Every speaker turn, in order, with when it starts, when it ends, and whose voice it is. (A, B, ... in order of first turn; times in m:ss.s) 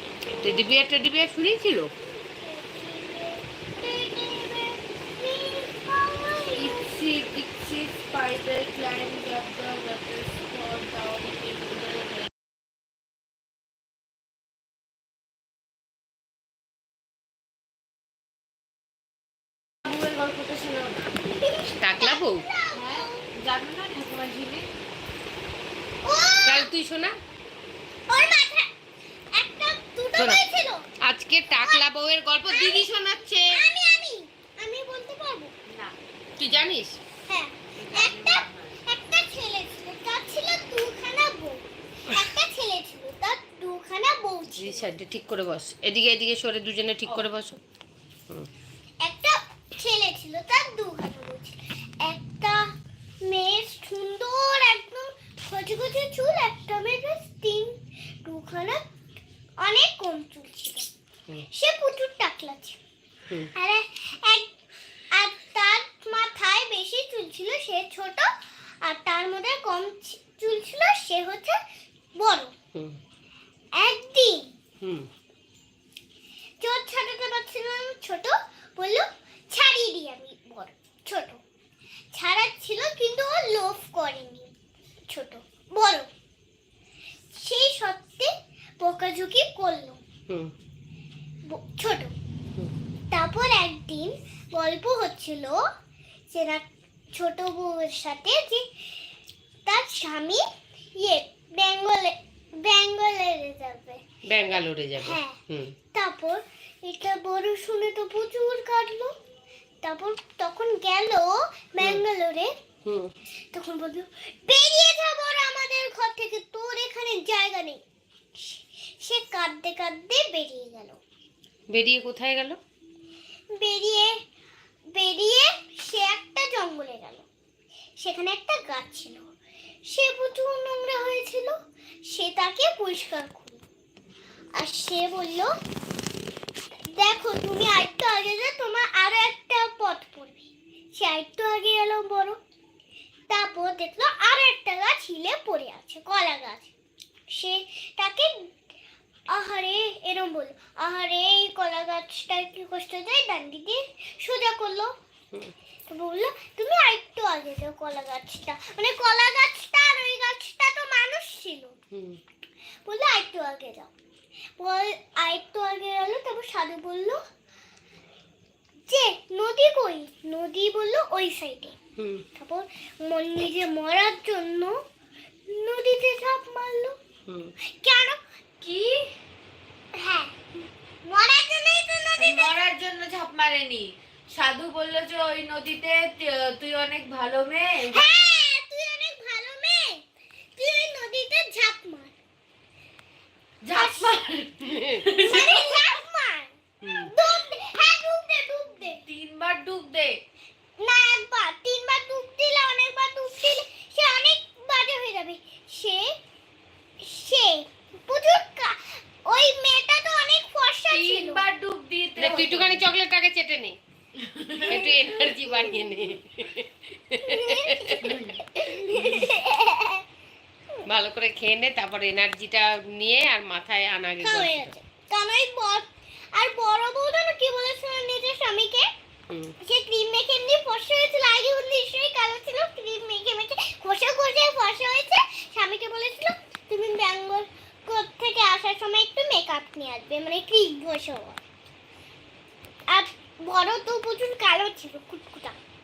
0:00.4-0:01.9 A
0:01.9-0:06.9 B
0:06.6-0:12.3 C
0:19.8-0:21.1 C
0:21.2-0:23.3 B
0:21.8-0:22.4 A
0:22.7-0:24.7 C
0:26.0-0:26.7 B
0:26.4-0:27.1 A
0:28.1-0:28.7 B
0:29.3-0:30.9 B
0:31.0-0:33.6 A
0:31.6-0:31.8 B
0:32.5-0:35.5 B
0:35.7-0:36.0 C
0:36.4-0:37.0 A
0:37.3-0:44.8 B
0:37.8-0:38.8 C
0:44.6-0:47.6 A
0:49.0-0:58.8 B
0:59.6-1:00.9 B
1:01.5-1:02.8 B
1:03.6-1:04.5 B
1:05.1-1:08.3 B
1:08.8-1:11.6 B
1:12.2-1:12.5 B
1:13.8-1:14.6 B
1:14.8-1:15.1 A
1:16.6-1:21.4 B
1:22.1-1:24.5 B
1:25.1-1:26.1 B
1:27.3-1:30.0 B
1:31.5-1:32.1 B
1:33.1-1:35.6 B
1:36.3-1:38.7 B
1:39.7-1:40.4 B
1:41.0-1:44.0 B
1:44.3-1:45.8 A
1:45.0-1:45.4 B
1:45.9-1:49.1 B
1:49.8-1:52.5 B
1:52.8-1:53.1 A
1:53.5-1:57.8 B
1:58.4-2:01.0 B
2:01.7-2:02.6 A
2:03.5-2:04.2 B
2:04.9-2:07.3 B
2:08.0-2:09.3 B
2:09.9-2:13.6 B
2:14.6-2:15.5 B
2:16.9-2:22.4 B
2:23.3-2:26.7 B
2:27.3-2:28.5 B
2:29.3-2:34.9 B
2:35.9-2:41.8 B
2:41.9-2:42.2 A
2:42.8-2:43.9 B
2:44.6-2:47.2 B
2:48.9-2:51.8 B
2:52.0-2:52.2 A
2:52.4-2:54.8 B
2:55.5-2:57.0 B
2:57.3-2:57.5 A
2:57.6-2:58.2 B
2:58.6-2:59.0 C
2:59.9-3:00.4 B
3:01.0-3:02.5 B
3:02.2-3:08.4 C
3:07.9-3:10.0 B
3:10.6-3:12.1 B
3:13.6-3:15.8 C
3:13.7-3:14.2 B
3:14.7-3:15.0 A
3:15.2-3:19.0 B
3:16.8-3:17.1 A
3:18.8-3:20.2 C
3:20.8-3:26.1 B
3:27.0-3:31.4 B
3:30.9-3:32.9 C
3:32.2-3:33.8 A
3:34.2-3:34.9 C
3:34.7-3:34.9 B
3:34.7-3:38.0 A
3:37.2-3:40.0 B
3:38.0-3:39.2 C
3:40.9-3:44.7 A
3:44.2-3:48.9 B
3:49.3-3:49.6 A
3:49.6-4:01.4 B
4:02.9-4:05.6 B